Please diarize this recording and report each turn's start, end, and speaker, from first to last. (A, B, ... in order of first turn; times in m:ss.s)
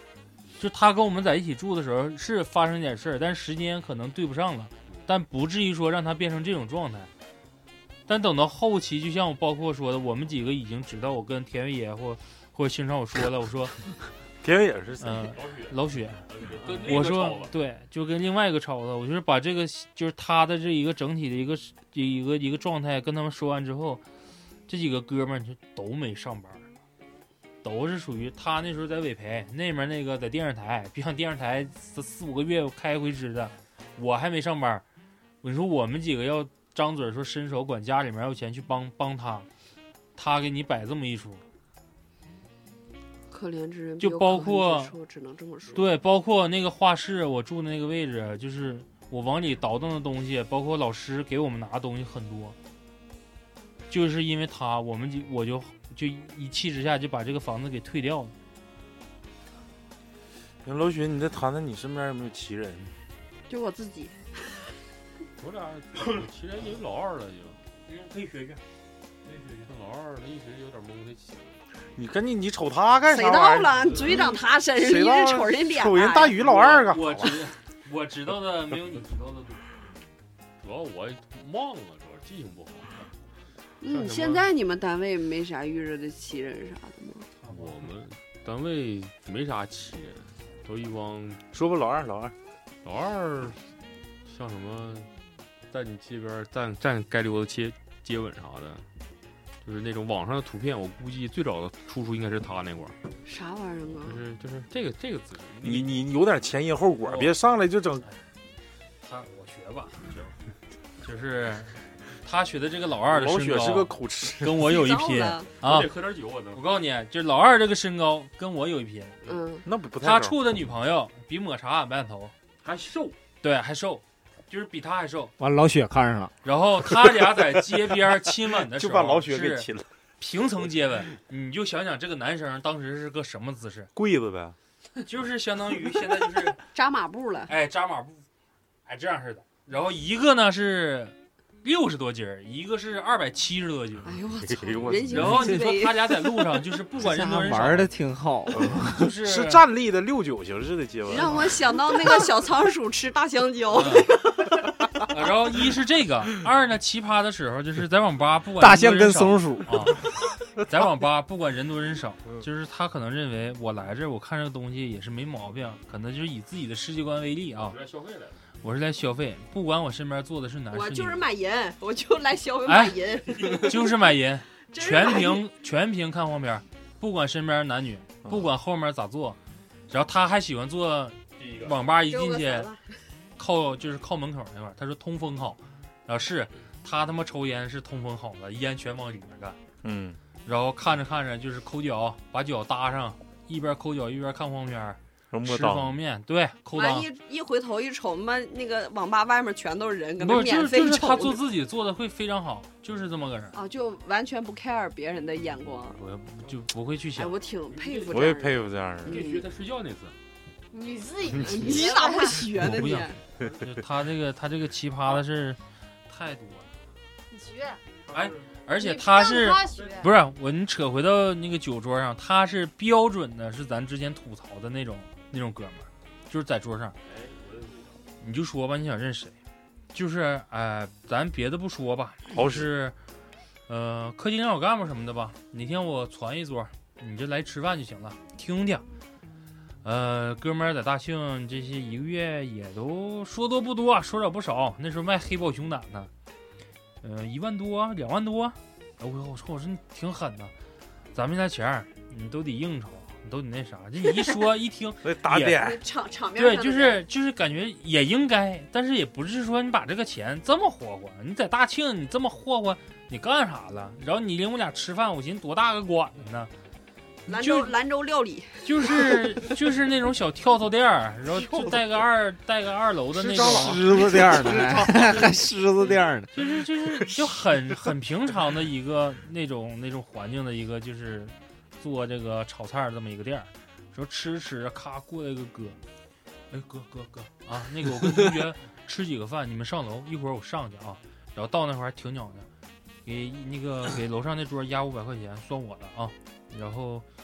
0:00.6-0:07.1 A
0:08.1-0:13.8 A
0:14.4-0:15.3 B
0:15.0-0:24.0 A
0:15.3-0:17.5 C
0:24.7-0:26.6 A
0:27.6-0:34.8 A
0:35.4-0:39.5 A
0:40.2-0:41.4 A
0:43.3-0:45.8 D
0:44.0-0:44.9 A
0:45.7-0:52.6 A
0:53.9-0:58.3 A
1:00.6-1:02.9 B
1:03.5-1:04.2 D
1:05.4-1:07.6 C
1:07.9-1:08.6 A
1:09.3-1:11.6 C
1:12.0-1:14.1 B
1:13.1-1:16.4 D
1:14.8-1:17.4 B
1:16.8-1:19.6 A
1:20.6-1:23.0 C
1:23.8-1:27.3 D
1:23.9-1:24.5 C
1:27.4-1:31.4 C
1:27.5-1:27.8 A
1:31.5-1:32.3 B
1:32.8-1:33.6 C
1:34.2-1:35.1 C
1:35.7-1:38.8 C
1:39.6-1:43.0 C
1:43.2-1:44.2 D
1:44.0-1:46.0 C
1:45.6-1:48.0 B
1:47.0-1:47.3 A
1:49.0-1:50.1 A
1:50.1-1:50.4 C
1:51.0-1:55.9 A
1:53.1-1:54.6 B
1:54.6-1:55.5 D
1:55.6-1:56.6 C
1:56.5-1:59.2 A
1:59.2-1:59.6 D
1:59.6-2:00.4 B
2:00.0-2:02.3 A
2:02.6-2:03.2 C
2:03.4-2:05.3 A
2:05.4-2:06.3 E
2:06.4-2:09.7 A
2:08.7-2:09.9 B
2:10.2-2:13.9 A
2:13.9-2:14.6 B
2:15.0-2:16.6 A
2:16.7-2:17.5 D
2:17.5-2:18.2 A
2:18.8-2:24.2 A
2:24.0-2:26.2 D
2:24.4-2:25.4 B
2:25.1-2:27.9 A
2:27.0-2:29.1 E
2:28.7-2:29.6 A
2:29.2-2:31.5 B
2:31.1-2:34.7 D
2:33.7-2:34.2 A
2:35.0-2:40.0 A
2:38.6-2:39.9 E
2:40.6-2:47.8 A
2:47.5-2:48.4 C
2:48.6-2:51.2 A
2:50.7-2:53.9 D
2:52.6-2:59.4 A
2:54.7-2:55.4 D
2:59.9-3:02.7 A
3:01.4-3:01.8 C
3:02.1-3:02.9 D
3:03.4-3:09.6 A
3:09.8-3:10.2 B
3:10.4-3:17.1 A
3:15.3-3:15.9 B
3:16.7-3:21.4 D
3:20.2-3:23.6 A
3:23.5-3:26.0 D
3:26.0-3:27.4 A
3:27.2-3:29.5 D
3:27.7-3:28.3 C
3:28.1-3:29.2 B
3:29.0-3:30.1 C
3:30.7-3:32.5 F
3:31.4-3:33.2 D
3:32.5-3:36.7 A
3:37.3-3:37.8 F
3:38.1-3:38.4 C
3:38.1-3:47.0 A
3:38.8-3:40.0 F
3:47.0-3:47.9 C
3:48.2-3:49.3 A
3:49.9-3:53.0 A
3:52.3-3:52.7 B
3:53.7-3:58.8 A
3:59.8-4:06.1 A
4:07.0-4:10.5 A
4:11.1-4:15.6 A
4:15.0-4:15.8 B
4:15.5-4:17.0 D
4:16.4-4:26.5 A
4:27.2-4:27.7 A
4:27.3-4:29.2 D
4:28.6-4:34.0 A
4:31.4-4:31.7 B
4:33.2-4:35.2 B
4:33.2-4:36.3 E
4:36.3-4:45.8 A
4:46.5-4:52.5 A
4:53.0-4:57.0 A